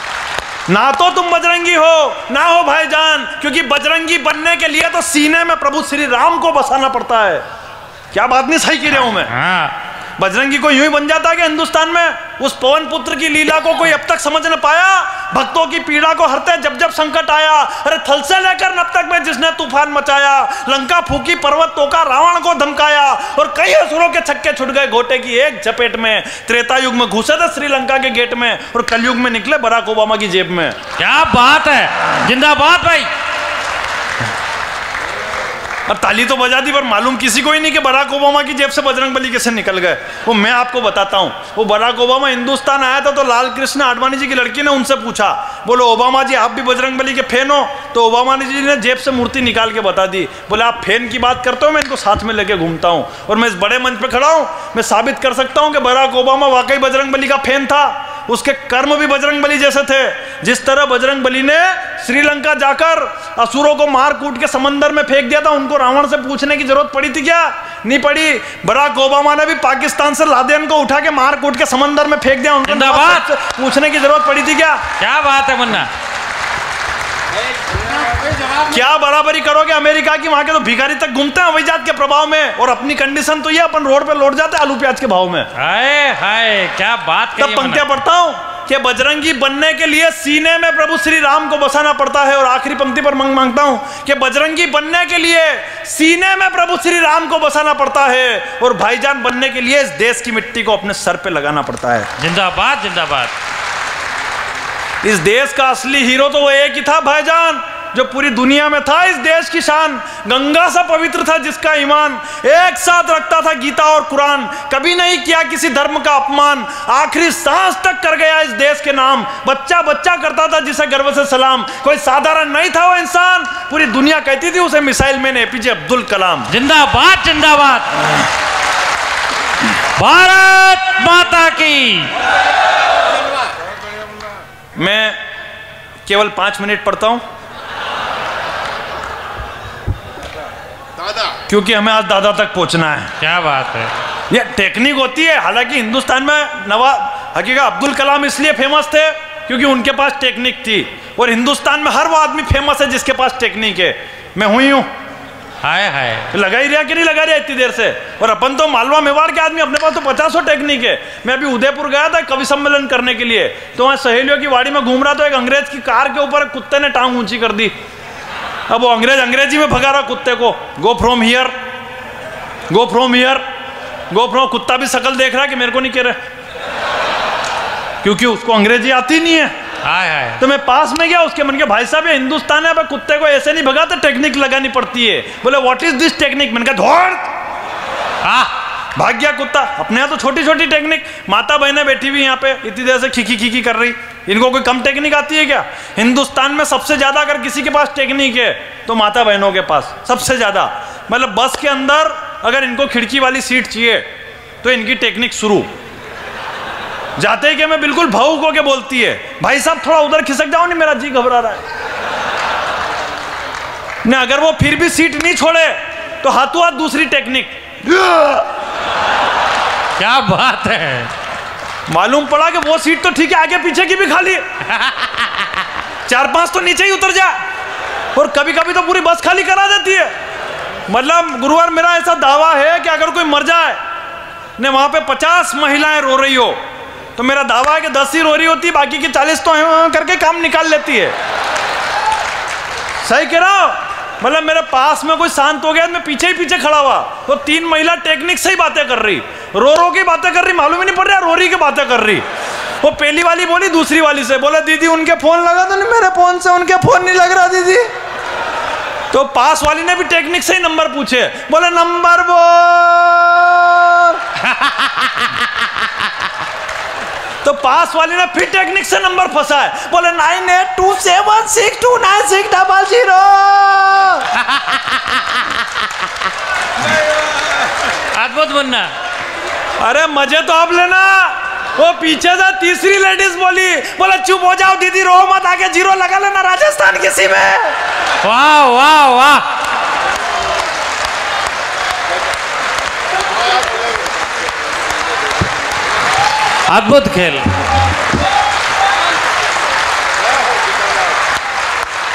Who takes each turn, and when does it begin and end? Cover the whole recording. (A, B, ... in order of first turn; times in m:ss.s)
0:00.7-0:07.4 A
0:08.1-0:09.3 A
0:09.2-0:09.7 B
0:10.2-0:30.8 A
0:31.0-0:33.1 B
0:35.9-1:14.9 A
1:12.6-1:13.2 B
1:15.0-1:15.9 B
1:18.7-1:25.5 A
1:25.5-1:27.8 B
1:27.4-1:42.1 A
1:42.2-1:43.3 B
1:45.0-2:06.5 A
2:06.5-2:08.0 B
2:10.0-2:12.1 B
2:14.8-2:15.2 A
2:16.0-2:17.2 A
2:21.5-2:23.1 A
2:23.2-2:23.9 B
2:24.3-2:34.9 A
2:35.6-2:36.3 B
2:36.3-2:47.7 A
2:48.7-2:51.5 A
2:52.7-2:53.4 A
2:54.1-2:56.2 A
2:58.0-2:59.5 A
2:59.8-3:00.4 B
3:00.4-3:07.3 A
3:08.2-3:08.5 B
3:09.0-3:24.1 A
3:24.6-3:25.7 A
3:27.2-3:31.6 A
3:34.0-3:38.4 A
3:40.0-3:41.1 B
3:41.9-3:44.4 A
3:46.1-3:47.4 A
3:48.1-3:50.1 A
3:50.9-3:53.8 A
3:54.6-3:56.6 A
3:57.2-4:01.1 A
4:03.0-4:12.2 A
4:12.8-4:17.9 A
4:19.1-4:24.2 A
4:24.5-4:25.3 B
4:27.4-4:34.3 A
4:38.1-4:38.9 B
4:39.8-4:47.7 A
4:48.2-4:49.4 B
4:56.7-4:57.6 B